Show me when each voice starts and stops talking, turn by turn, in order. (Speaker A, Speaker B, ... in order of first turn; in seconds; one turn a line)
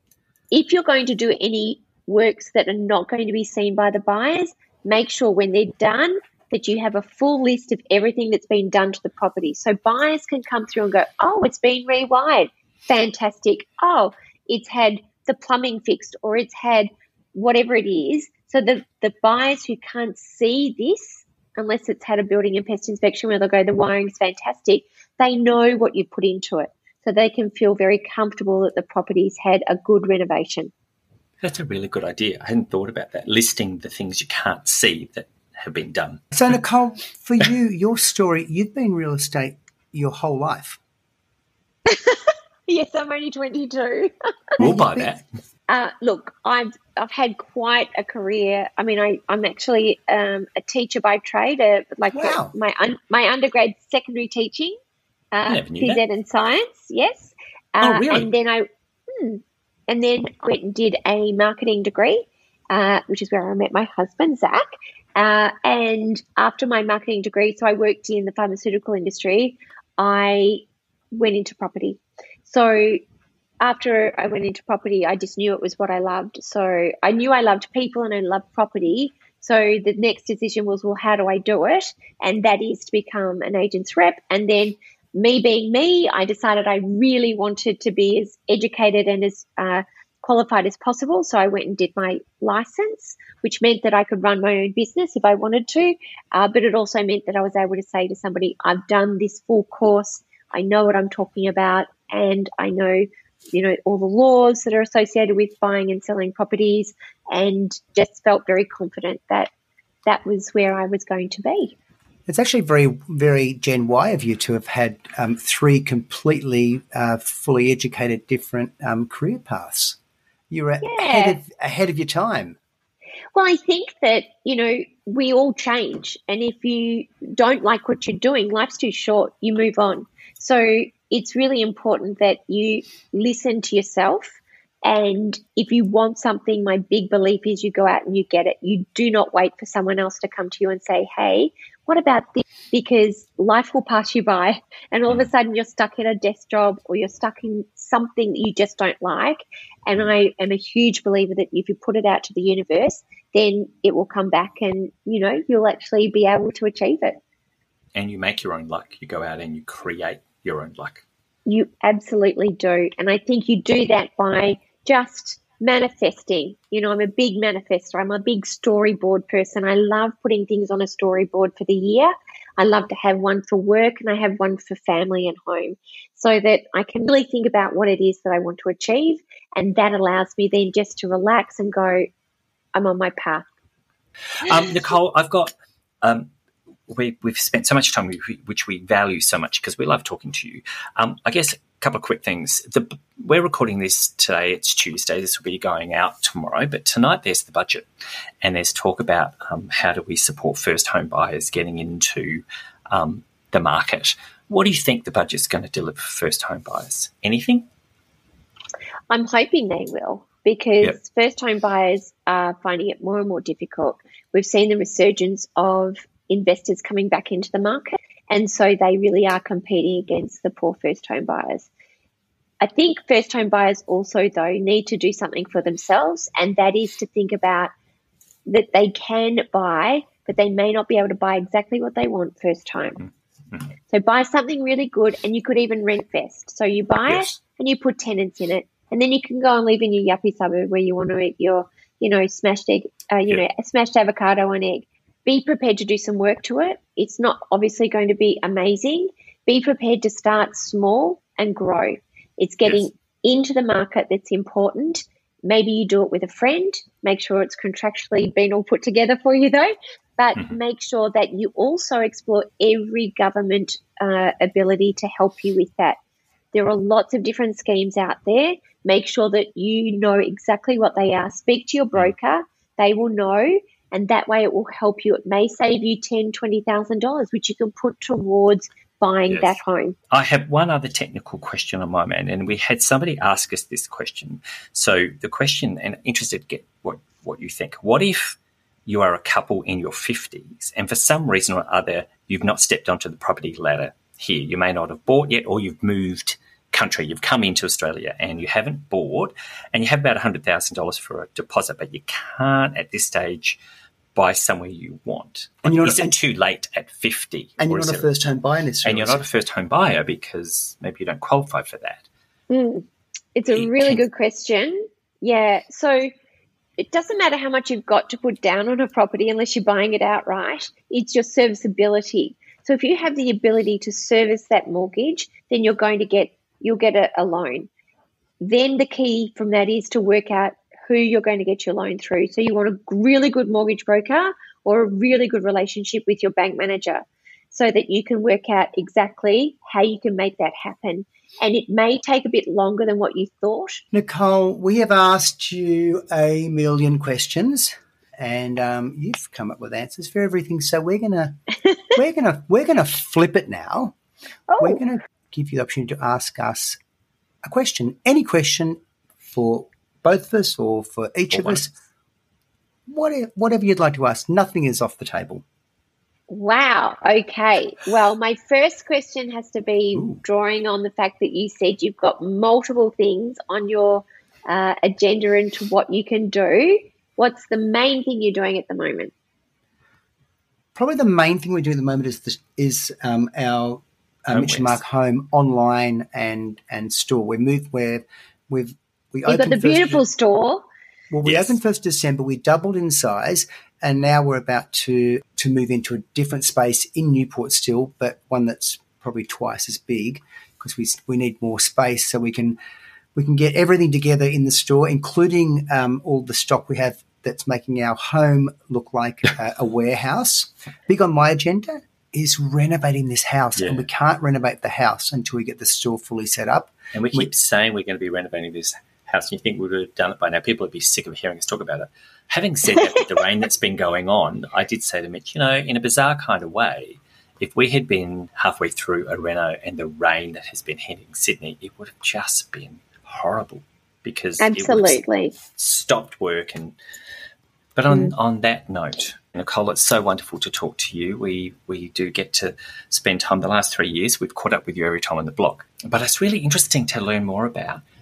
Speaker A: 0.5-30.7
Speaker B: 31.4-36.2
Speaker C: 36.3-40.8
Speaker A: 41.9-44.1
Speaker B: 44.6-45.2
Speaker C: 44.6-45.1
Speaker A: 45.7-54.8
Speaker C: 52.1-52.5
Speaker A: 55.3-73.0
Speaker B: 55.5-56.0
Speaker B: 57.8-58.3
Speaker A: 73.6-109.5
Speaker A: 110.1-111.8
Speaker C: 112.3-120.0
Speaker C: 120.5-122.6
Speaker A: 120.8-121.4
Speaker A: 123.3-157.2
Speaker B: 157.9-161.0
Speaker A: 161.5-182.1
Speaker A: 182.8-183.5
Speaker B: 184.4-186.3
Speaker B: 186.9-197.9
Speaker B: 198.4-207.7
Speaker A: 209.1-221.7
Speaker A: 222.6-227.7
Speaker A: 228.5-233.0
Speaker B: 233.0-233.7
Speaker A: 233.9-266.0
Speaker B: 237.1-237.4
Speaker A: 266.5-280.0
Speaker B: 279.3-279.6
Speaker B: 280.1-303.6
Speaker B: 304.1-308.1
Speaker C: 305.6-306.2
Speaker C: 307.6-309.2
Speaker B: 308.8-312.1
Speaker A: 312.5-316.1
Speaker B: 313.5-314.0
Speaker A: 316.8-327.7
Speaker A: 328.4-343.8
Speaker C: 343.9-351.4
Speaker C: 351.9-354.0
Speaker A: 354.5-354.8
Speaker C: 354.6-356.8
Speaker C: 357.4-361.7
Speaker B: 361.3-361.6
Speaker C: 362.9-365.4
Speaker A: 366.3-379.1
Speaker C: 380.8-390.0
Speaker B: 384.3-384.8
Speaker A: 389.3-390.6
Speaker C: 391.1-402.6
Speaker B: 391.2-391.6
Speaker C: 403.1-417.3
Speaker B: 413.6-413.9
Speaker B: 416.9-435.0
Speaker A: 434.4-435.4
Speaker B: 435.5-436.8
Speaker B: 437.8-447.8